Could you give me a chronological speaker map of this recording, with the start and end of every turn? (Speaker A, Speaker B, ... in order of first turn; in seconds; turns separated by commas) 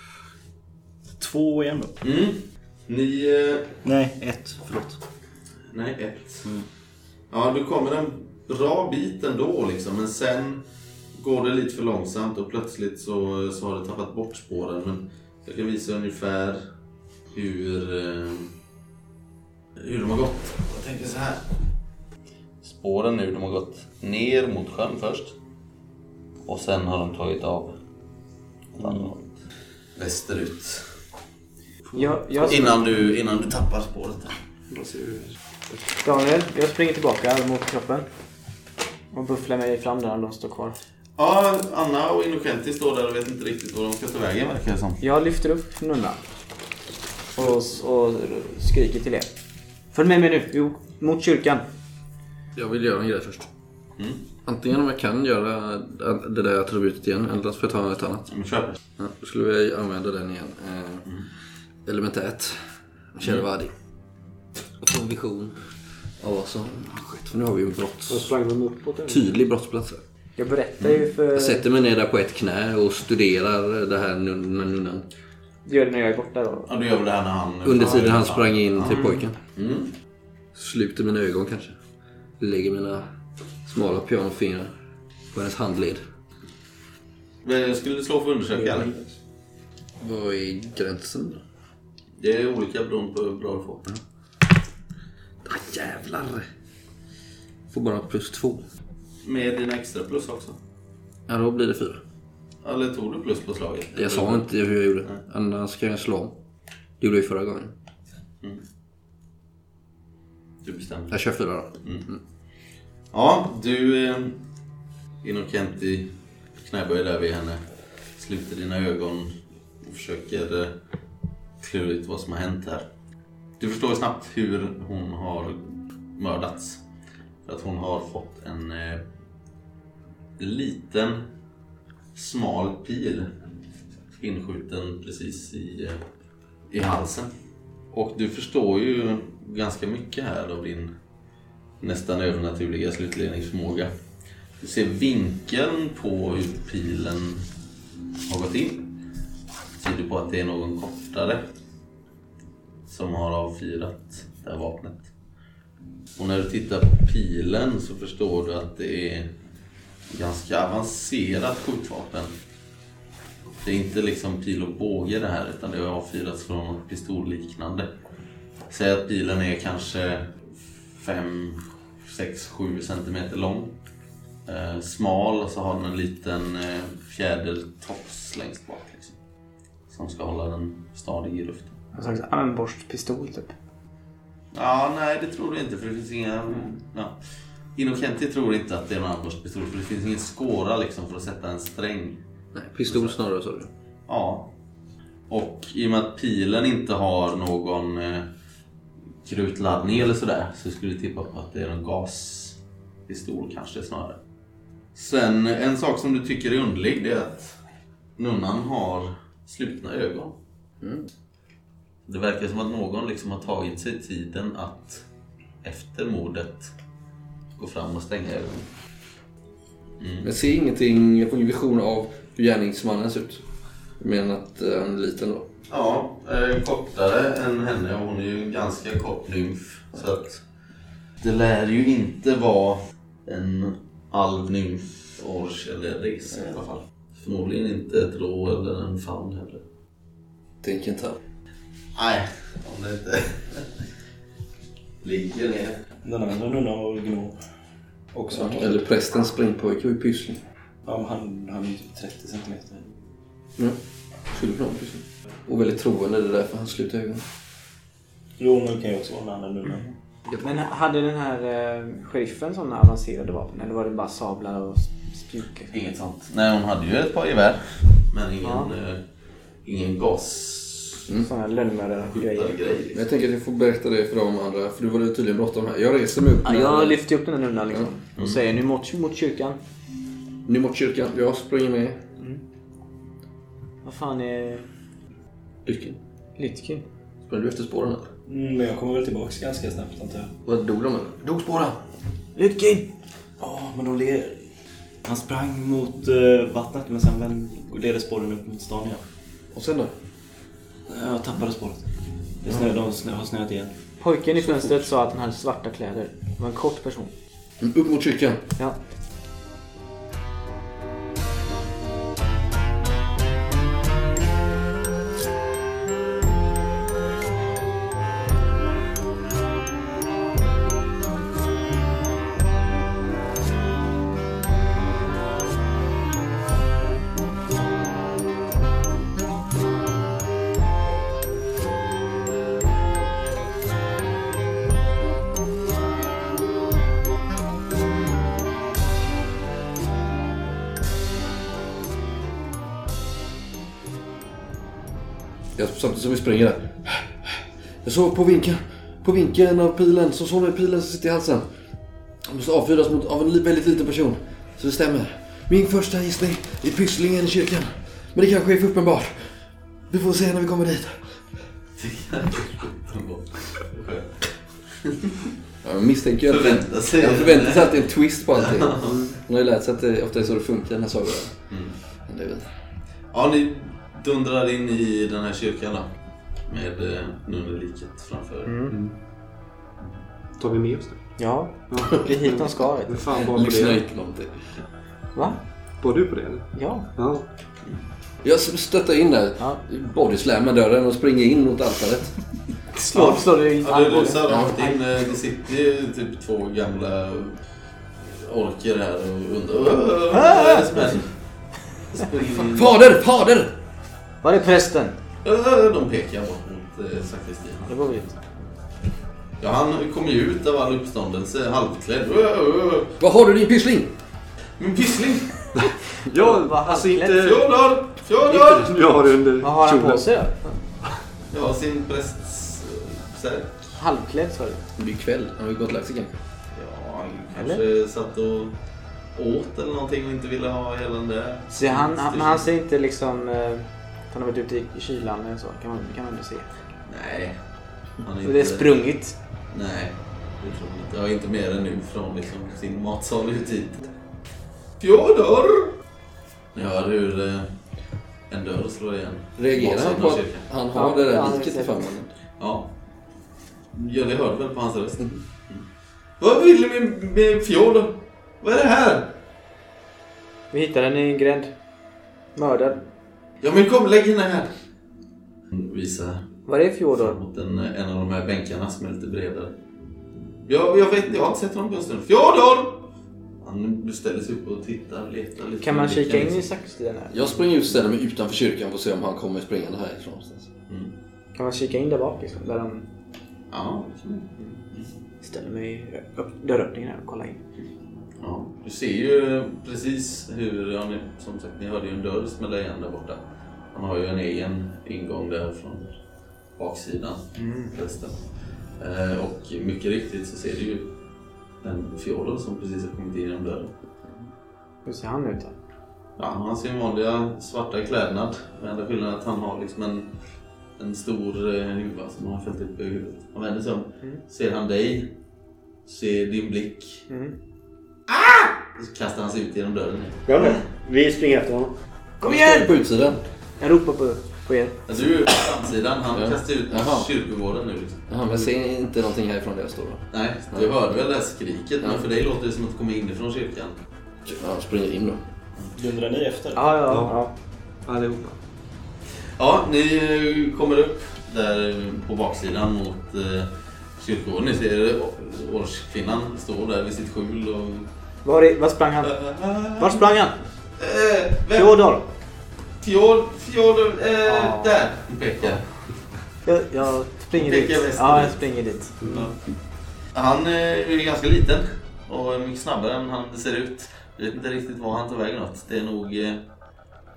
Speaker A: 1.2-2.0, Speaker B: 2.0-3.7, Speaker A: 3.8-5.0, Speaker B: 5.7-6.5, Speaker B: 7.3-16.7, Speaker B: 17.3-18.5, Speaker B: 19.8-21.5, Speaker B: 22.6-25.3, Speaker B: 26.4-27.8, Speaker B: 28.7-29.3, Speaker B: 29.9-30.9, Speaker C: 31.9-32.8, Speaker B: 32.4-34.4, Speaker D: 34.7-35.3, Speaker C: 36.0-38.1, Speaker C: 39.1-40.8, Speaker B: 41.2-45.0, Speaker C: 45.0-46.2, Speaker C: 47.3-49.3, Speaker C: 49.9-51.6, Speaker E: 52.5-53.5, Speaker B: 54.0-54.3, Speaker E: 54.4-58.3, Speaker B: 58.3-58.8, Speaker E: 59.0-61.0, Speaker E: 61.9-62.6, Speaker E: 63.1-63.7, Speaker B: 63.2-63.5, Speaker E: 64.8-65.5, Speaker E: 66.2-68.3, Speaker D: 68.1-69.3, Speaker E: 69.1-70.0, Speaker C: 70.4-71.6, Speaker E: 71.3-75.0, Speaker C: 75.6-76.7, Speaker B: 76.7-79.9, Speaker E: 77.6-79.4, Speaker E: 80.5-81.8, Speaker E: 82.4-83.0, Speaker E: 83.7-84.7, Speaker E: 85.3-86.0, Speaker B: 87.4-89.0, Speaker E: 90.0-91.4, Speaker B: 92.2-93.9, Speaker E: 95.4-96.5, Speaker E: 97.7-98.6, Speaker B: 99.2-100.6, Speaker E: 101.3-102.0, Speaker B: 102.6-104.5, Speaker E: 103.9-106.3, Speaker E: 107.0-107.7, Speaker B: 110.6-111.2, Speaker E: 111.1-112.2, Speaker B: 113.1-114.4, Speaker B: 115.2-117.6, Speaker B: 118.2-120.8, Speaker B: 121.6-122.9, Speaker B: 123.6-126.8, Speaker B: 127.4-129.1, Speaker B: 130.4-131.3, Speaker B: 132.1-133.3, Speaker B: 134.2-136.0, Speaker B: 136.7-137.3, Speaker B: 137.9-140.9, Speaker B: 141.8-143.9, Speaker B: 144.6-147.4, Speaker B: 148.2-148.9, Speaker B: 149.8-151.5, Speaker B: 152.8-155.1, Speaker B: 156.2-159.3, Speaker B: 160.1-162.3, Speaker B: 163.6-167.9, Speaker B: 168.7-173.8, Speaker B: 174.4-179.2, Speaker B: 179.9-181.8, Speaker C: 181.9-183.5, Speaker B: 184.5-187.2, Speaker B: 187.8-192.2, Speaker E: 192.5-193.7, Speaker B: 192.9-193.2, Speaker B: 194.1-194.5, Speaker B: 195.3-198.3, Speaker B: 199.2-204.2, Speaker B: 204.9-207.6, Speaker B: 208.2-210.4, Speaker E: 210.8-211.1, Speaker B: 212.1-215.0, Speaker B: 215.6-216.7, Speaker B: 217.6-218.7, Speaker B: 220.0-220.3, Speaker E: 220.2-223.4, Speaker E: 224.0-225.5, Speaker B: 225.7-230.4, Speaker B: 231.2-239.6, Speaker E: 240.6-241.2, Speaker B: 241.9-243.8, Speaker B: 245.0-245.8, Speaker A: 246.0-247.3, Speaker A: 248.1-248.8, Speaker E: 248.3-250.4, Speaker A: 250.8-252.9, Speaker E: 254.3-257.2, Speaker A: 258.4-259.9, Speaker C: 260.4-265.7, Speaker B: 265.7-269.0, Speaker C: 268.4-268.7, Speaker B: 269.6-271.1, Speaker C: 271.2-272.6, Speaker B: 272.1-273.1, Speaker E: 272.9-277.0, Speaker C: 276.4-279.6, Speaker E: 280.4-282.0, Speaker C: 283.8-284.6, Speaker E: 285.6-286.0, Speaker C: 286.4-286.8, Speaker E: 287.2-288.1, Speaker A: 288.3-290.3, Speaker E: 290.4-291.8, Speaker C: 292.4-292.9, Speaker A: 293.4-294.4, Speaker A: 295.0-299.0, Speaker E: 299.5-299.9, Speaker A: 300.9-301.8, Speaker A: 302.4-303.7, Speaker C: 304.0-307.1, Speaker E: 304.4-304.7, Speaker E: 307.6-308.4, Speaker E: 345.6-351.4, Speaker E: 352.2-359.4, Speaker E: 359.9-361.1, Speaker B: 361.8-365.3, Speaker E: 365.6-371.4, Speaker B: 366.2-369.1, Speaker B: 371.5-371.8, Speaker E: 372.1-372.4, Speaker B: 373.1-375.9, Speaker B: 376.5-378.6, Speaker C: 378.4-378.7, Speaker D: 378.7-378.9, Speaker D: 380.4-381.0, Speaker C: 381.2-383.2, Speaker D: 381.7-383.8, Speaker E: 383.2-384.3, Speaker C: 385.1-385.4, Speaker D: 385.8-387.2, Speaker C: 386.5-386.9, Speaker E: 388.2-392.1, Speaker C: 392.7-394.8, Speaker B: 392.9-397.4, Speaker B: 398.0-401.1, Speaker C: 400.1-400.8, Speaker B: 401.9-402.8, Speaker E: 402.5-403.5, Speaker C: 404.2-404.9, Speaker B: 405.2-408.1, Speaker C: 407.7-408.1, Speaker B: 409.4-412.9, Speaker E: 413.0-413.9, Speaker B: 414.6-415.4, Speaker D: 415.6-417.4, Speaker C: 416.1-417.3, Speaker B: 417.1-418.7, Speaker D: 418.4-420.1, Speaker C: 419.4-420.6, Speaker B: 421.3-423.6, Speaker C: 423.8-424.6, Speaker E: 424.8-426.2, Speaker B: 426.5-428.6, Speaker C: 427.3-427.6, Speaker B: 429.1-432.5, Speaker C: 431.5-436.5, Speaker B: 436.9-437.4, Speaker B: 438.0-438.9, Speaker C: 438.2-439.1, Speaker B: 439.5-443.9, Speaker B: 444.8-445.8, Speaker B: 446.5-447.5, Speaker B: 448.3-450.5, Speaker E: 449.4-452.1, Speaker C: 450.7-451.9, Speaker B: 452.4-452.7, Speaker B: 453.7-455.6, Speaker B: 456.2-459.2, Speaker C: 460.5-461.5, Speaker C: 462.4-462.8, Speaker B: 463.4-464.5, Speaker B: 465.5-466.3, Speaker C: 466.5-467.2, Speaker B: 466.9-469.6, Speaker B: 470.4-476.4, Speaker C: 475.6-477.3, Speaker E: 477.1-480.5, Speaker B: 480.7-480.9, Speaker C: 481.3-482.9, Speaker B: 483.5-484.3, Speaker C: 485.2-487.4, Speaker B: 488.2-495.9, Speaker B: 496.6-498.2, Speaker C: 497.4-497.7, Speaker B: 498.8-500.9, Speaker B: 501.6-503.7, Speaker C: 504.9-505.6, Speaker B: 506.2-510.1, Speaker B: 510.8-515.1, Speaker B: 515.9-517.0, Speaker C: 517.1-517.4, Speaker B: 518.1-520.6, Speaker D: 520.2-521.7, Speaker C: 522.2-522.8, Speaker E: 522.2-523.2, Speaker C: 523.6-524.8, Speaker B: 524.9-528.1, Speaker E: 526.1-527.1, Speaker E: 528.1-530.7, Speaker B: 530.1-533.8, Speaker E: 534.2-535.2, Speaker A: 535.8-537.0, Speaker C: 536.5-537.3, Speaker D: 536.9-537.3, Speaker D: 537.9-538.4, Speaker B: 539.4-547.9, Speaker C: 548.2-549.2, Speaker B: 549.0-550.1, Speaker C: 549.8-550.4, Speaker B: 550.8-551.8, Speaker C: 551.5-552.1, Speaker B: 552.8-555.7, Speaker C: 554.2-554.8, Speaker C: 556.4-559.0, Speaker B: 557.3-559.4, Speaker B: 560.1-566.4